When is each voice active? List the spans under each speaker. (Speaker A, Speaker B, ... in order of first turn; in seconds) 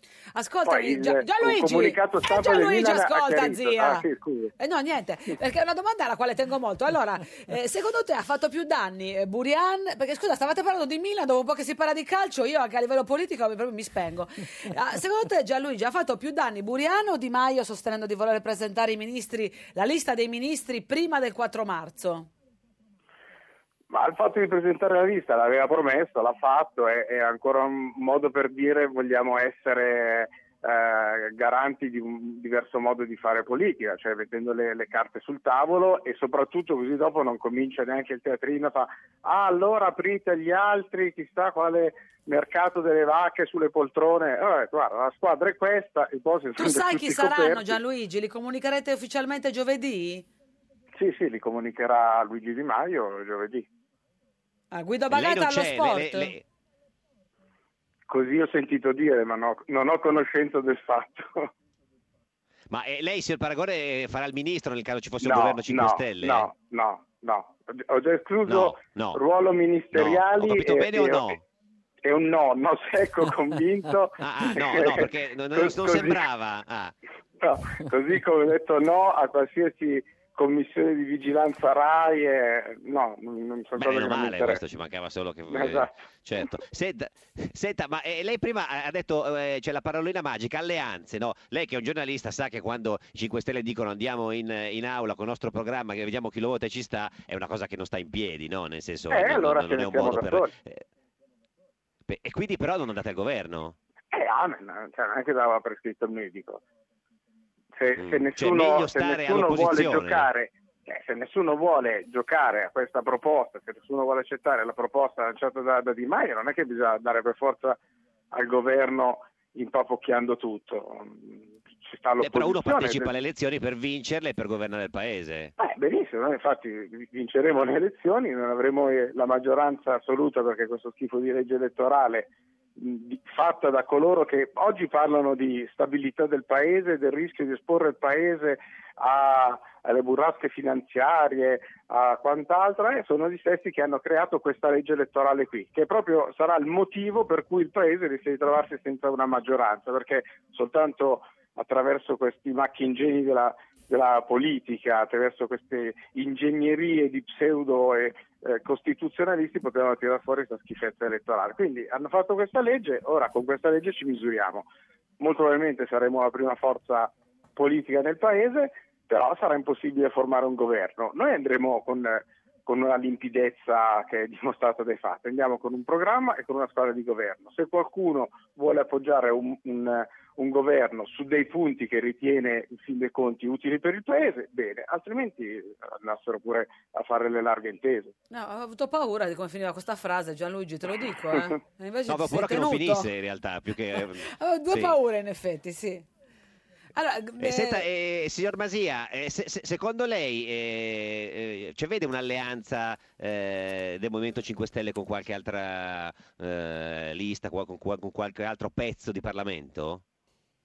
Speaker A: 0.3-4.1, 4.6-22.3, 46.6-50.3, 54.7-56.3, 188.3-193.1, 194.0-196.1, 197.0-197.8
Speaker B: 0.7-4.5, 23.9-47.8, 51.0-53.7, 58.1-61.5, 65.2-71.3, 72.0-76.2, 77.4-84.6, 85.5-85.9, 99.1-100.5, 104.1-106.6, 107.8-117.8, 118.3-123.1, 125.6-164.7, 165.2-188.1
Speaker C: 55.1-56.4, 62.7-66.5, 68.5-69.2, 69.9-71.4, 74.2-76.9, 83.8-100.8, 102.1-103.8, 108.0-110.3, 122.2-125.5, 192.1-195.0, 197.4-210.0